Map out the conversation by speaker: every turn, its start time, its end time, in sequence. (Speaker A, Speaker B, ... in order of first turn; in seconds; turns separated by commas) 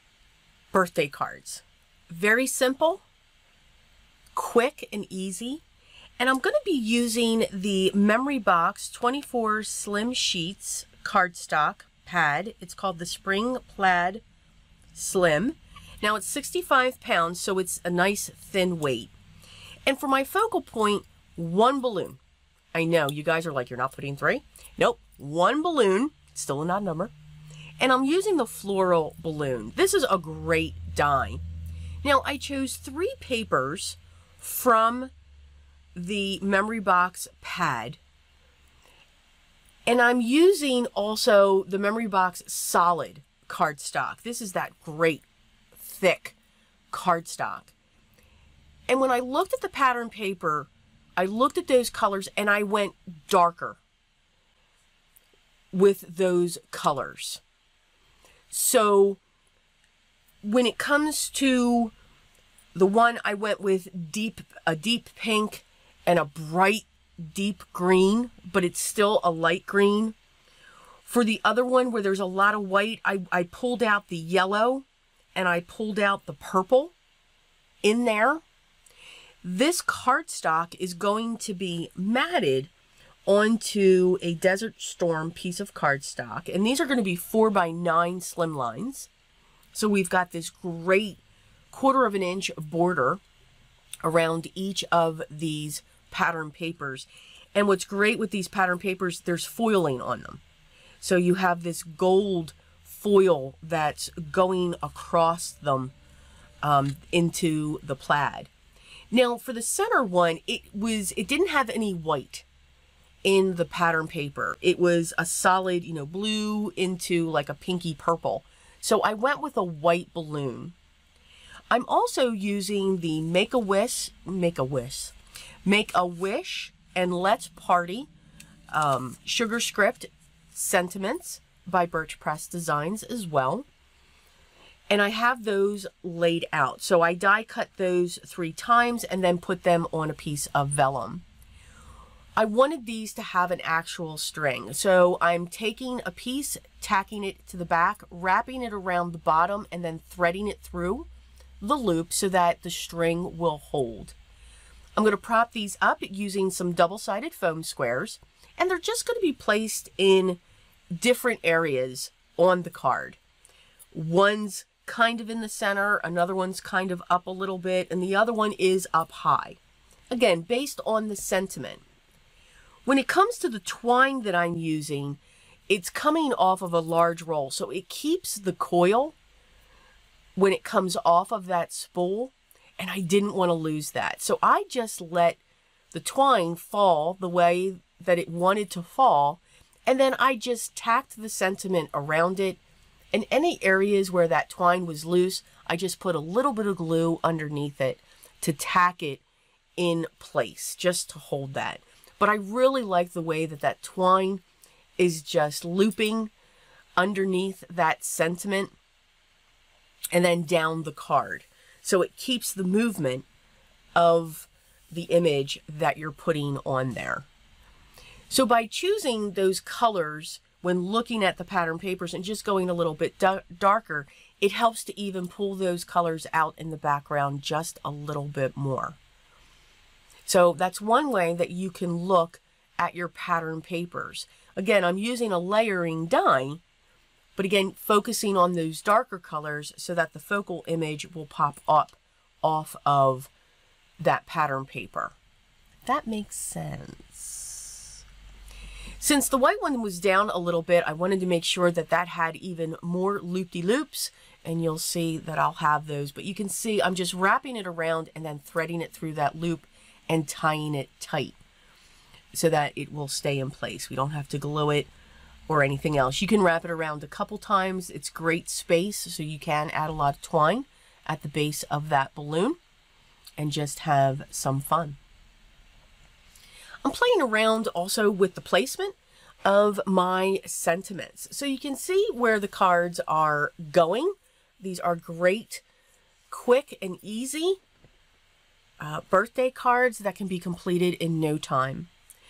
Speaker A: 0.7-3.0, Speaker A: 4.3-5.6, Speaker A: 6.2-14.2, Speaker A: 14.9-19.1, Speaker A: 19.9-22.2, Speaker A: 22.7-27.1, Speaker A: 27.8-31.4, Speaker A: 32.0-35.1, Speaker A: 36.0-38.0, Speaker A: 39.9-45.2, Speaker A: 45.8-46.4, Speaker A: 46.9-47.7, Speaker A: 48.9-53.8, Speaker A: 55.7-57.4, Speaker A: 58.5-59.2, Speaker A: 60.4-61.9, Speaker A: 62.8-70.2, Speaker A: 71.0-76.9, Speaker A: 77.8-78.4, Speaker A: 79.4-82.7, Speaker A: 83.2-89.1, Speaker A: 89.7-93.2, Speaker A: 94.0-100.4, Speaker A: 101.0-105.9, Speaker A: 106.6-108.5, Speaker A: 109.1-112.5, Speaker A: 113.2-120.7, Speaker A: 121.7-128.1, Speaker A: 128.7-133.7, Speaker A: 134.9-141.2, Speaker A: 142.4-151.1, Speaker A: 151.6-154.2, Speaker A: 154.9-160.4, Speaker A: 160.9-163.2, Speaker A: 163.9-169.6, Speaker A: 170.1-171.8, Speaker A: 172.9-179.2, Speaker A: 180.4-185.4, Speaker A: 185.9-192.6, Speaker A: 193.1-199.2, Speaker A: 199.8-204.4, Speaker A: 205.0-206.3, Speaker A: 207.0-208.8, Speaker A: 210.1-213.2, Speaker A: 213.9-217.3, Speaker A: 218.3-229.0, Speaker A: 230.2-236.6, Speaker A: 237.4-243.3, Speaker A: 244.0-245.2, Speaker A: 245.8-248.0, Speaker A: 249.0-261.4, Speaker A: 262.3-264.9, Speaker A: 265.5-272.6, Speaker A: 273.4-275.0, Speaker A: 276.8-285.6, Speaker A: 286.3-287.6, Speaker A: 288.8-291.9